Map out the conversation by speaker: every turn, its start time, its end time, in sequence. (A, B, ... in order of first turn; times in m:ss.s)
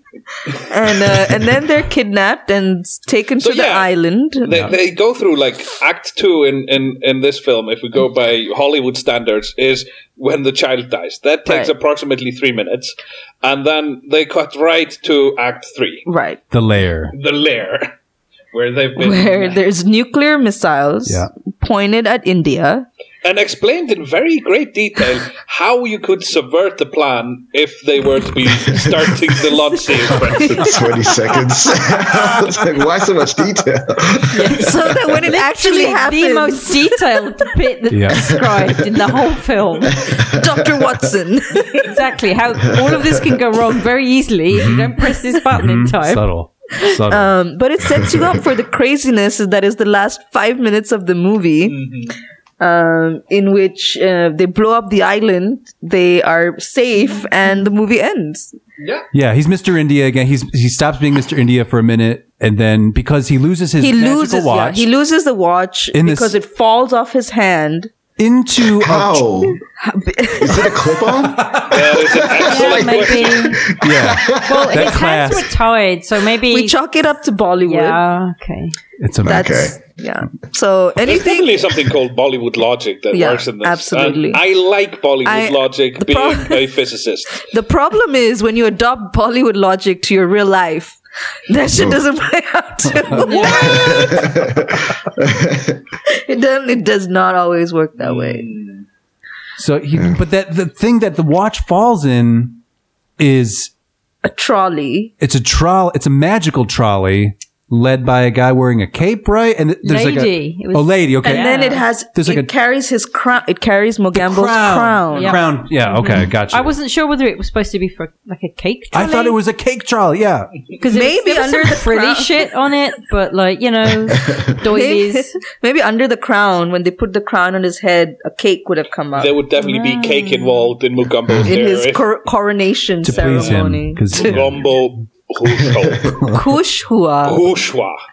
0:00.6-0:04.6 A
0:03.4-0:03.9 B
0:04.4-0:16.1 B
0:04.5-0:04.7 C
0:11.5-0:11.7 A
0:16.0-0:16.4 A
0:16.5-0:17.1 C
0:17.1-0:17.9 B
0:18.5-0:19.6 B
0:19.0-0:22.9 A
0:23.2-0:30.8 B
0:28.7-0:29.0 D
0:30.2-0:34.7 D
0:30.3-0:30.6 A
0:34.3-0:40.0 E
0:34.5-0:37.0 A
0:37.9-0:38.3 C
0:38.5-0:39.0 D
0:40.1-0:40.8 D
0:40.1-0:42.0 A
0:41.8-0:46.2 E
0:42.7-0:43.4 D
0:44.5-0:45.0 C
0:45.5-0:47.4 C
0:47.1-0:51.8 A
0:47.9-0:48.3 D
0:51.7-0:52.1 B
0:52.6-0:58.5 A
0:58.8-0:59.1 B
0:59.1-1:04.9 C
1:03.8-1:07.9 A
1:05.9-1:06.3 C
1:08.2-1:09.3 C
1:08.7-1:09.6 D
1:09.6-1:10.9 A
1:10.4-1:14.9 D
1:11.4-1:11.8 C
1:11.6-1:13.6 B
1:12.4-1:13.7 E
1:13.8-1:15.5 C
1:14.4-1:16.8 E
1:16.5-1:18.0 A
1:17.6-1:18.7 E
1:19.0-1:19.5 C
1:19.2-1:19.8 D
1:19.2-1:21.8 A
1:21.0-1:27.5 B
1:23.1-1:24.4 A
1:25.2-1:26.7 A
1:27.4-1:34.4 A
1:31.7-1:32.0 D
1:33.2-1:34.1 E
1:33.4-1:35.8 D
1:36.0-1:38.5 A
1:38.0-1:38.8 B
1:39.6-1:42.6 C
1:43.2-1:43.7 C
1:44.2-1:45.1 A
1:45.2-1:51.6 C
1:49.8-1:51.9 E
1:51.2-1:55.4 A
1:52.1-1:52.5 C
1:54.1-1:56.8 C
1:55.1-1:59.3 E
1:58.9-2:00.5 C
2:00.8-2:05.4 E
2:00.8-2:02.4 A
2:04.7-2:09.4 A
2:09.2-2:12.0 B
2:11.4-2:14.3 A
2:13.0-2:14.7 C
2:14.1-2:16.3 B
2:15.8-2:16.2 D
2:16.3-2:17.4 A
2:17.2-2:18.0 B